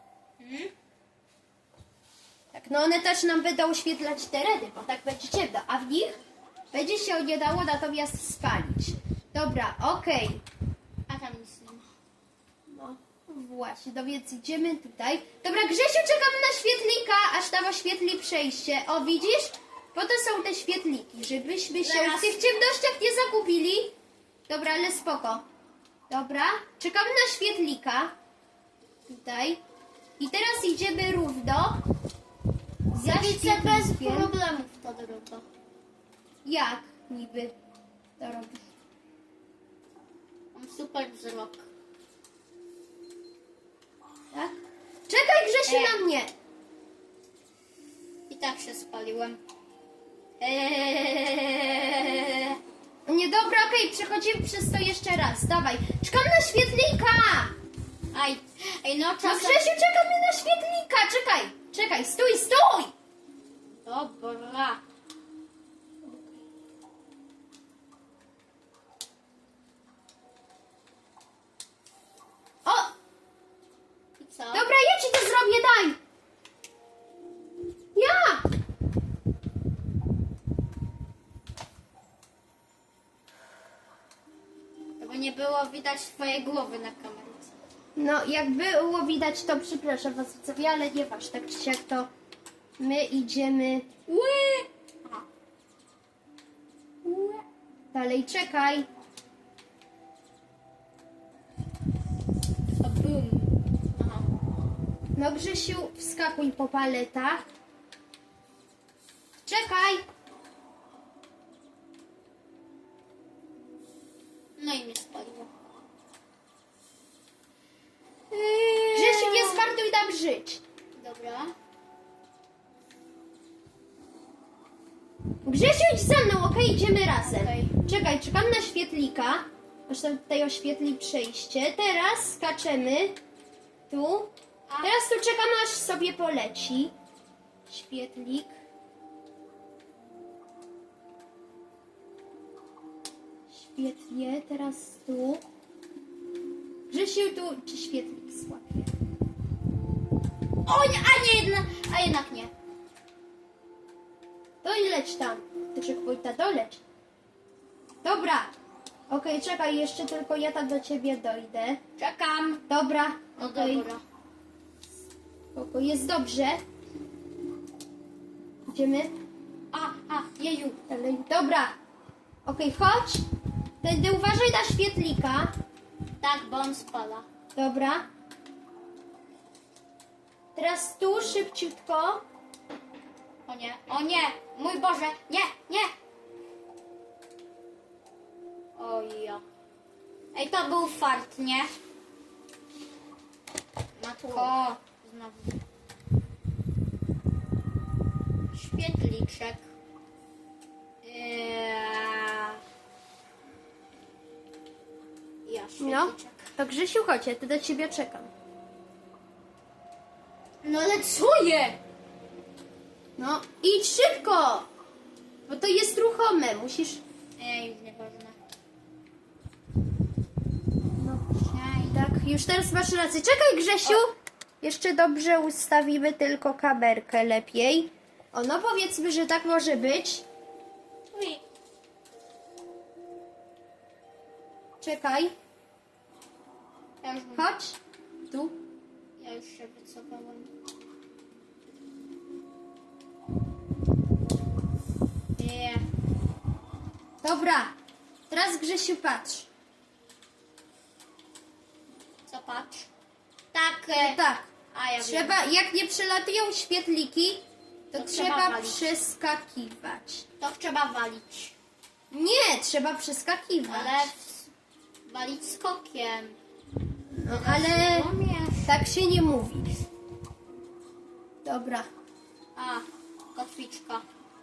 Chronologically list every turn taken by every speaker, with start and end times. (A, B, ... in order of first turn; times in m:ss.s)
0:00.4-0:00.7 A
0:02.5-0:06.2 B
0:06.7-0:10.4 B
0:11.1-0:11.9 A
0:12.7-0:23.9 B
0:21.8-0:22.4 A
0:24.5-0:25.4 B
0:26.1-0:28.1 B
0:29.1-0:29.6 B
0:30.2-0:31.8 B
0:32.9-0:34.3 B
0:33.0-0:35.4 A
0:36.4-0:37.5 B
0:38.2-0:38.7 B
0:40.5-0:41.7 A
0:44.3-0:46.3 B
0:45.7-0:46.0 A
0:48.3-0:49.4 A
0:50.4-0:52.6 A
0:53.0-0:57.5 B
0:58.1-0:59.6 A
0:59.2-1:02.9 B
1:03.8-1:04.8 A
1:06.0-1:06.4 B
1:12.6-1:12.9 B
1:14.2-1:14.7 A
1:14.5-1:16.0 B
1:17.9-1:18.4 B
1:25.0-1:27.5 A
1:28.0-1:32.1 B
1:32.8-1:33.9 B
1:34.1-1:35.2 A
1:37.0-1:37.4 A
1:37.9-1:38.9 B
1:42.8-1:44.2 A
1:45.2-1:47.5 B
1:49.4-1:50.0 B
1:54.6-1:55.5 A
1:58.3-1:59.6 A
1:58.9-2:00.6 B
2:00.9-2:01.5 A
2:05.4-2:13.2 B
2:07.1-2:07.7 A
2:13.9-2:14.3 B
2:14.7-2:15.0 A
2:14.8-2:16.9 B
2:17.7-2:18.5 B
2:23.5-2:25.4 B
2:26.9-2:28.9 B
2:30.6-2:32.5 A
2:34.6-2:36.8 B
2:38.0-2:38.5 B
2:39.1-2:41.8 B
2:42.0-2:42.6 A
2:42.7-2:43.9 B
2:43.4-2:44.0 A
2:45.5-2:46.6 B
2:48.7-2:49.1 B
2:49.7-2:50.8 A
2:50.9-2:51.7 B
2:52.4-2:53.2 B
2:53.8-2:55.5 B
2:56.2-2:57.2 A
2:57.6-2:58.0 B
3:00.5-3:02.2 B
3:03.4-3:05.9 A
3:08.8-3:09.4 A
3:10.3-3:11.7 A
3:14.0-3:15.6 A
3:14.3-3:14.5 B
3:18.5-3:19.6 A
3:21.0-3:22.6 A
3:25.4-3:26.4 A
3:25.8-3:28.3 B
3:30.6-3:31.8 A
3:33.2-3:34.7 B
3:35.5-3:37.0 B
3:37.4-3:38.4 A
3:41.0-3:41.3 B
3:41.4-3:42.0 A
3:41.8-3:50.2 B
3:51.1-3:51.4 A
3:54.8-3:55.3 B
3:57.0-3:57.5 A
3:57.4-3:57.8 B
3:58.3-3:58.6 B
3:59.2-4:00.5 A
4:05.4-4:05.8 A
4:07.2-4:07.7 B
4:08.3-4:09.5 B
4:12.3-4:12.9 A
4:13.5-4:14.2 A
4:14.0-4:20.2 B
4:14.7-4:15.4 A
4:17.9-4:19.0 A
4:20.4-4:21.5 A
4:22.1-4:24.1 B
4:23.6-4:24.5 A
4:25.0-4:26.4 A
4:27.1-4:28.1 B
4:27.3-4:28.7 A
4:28.6-4:29.7 B
4:31.4-4:31.9 B
4:32.5-4:34.0 A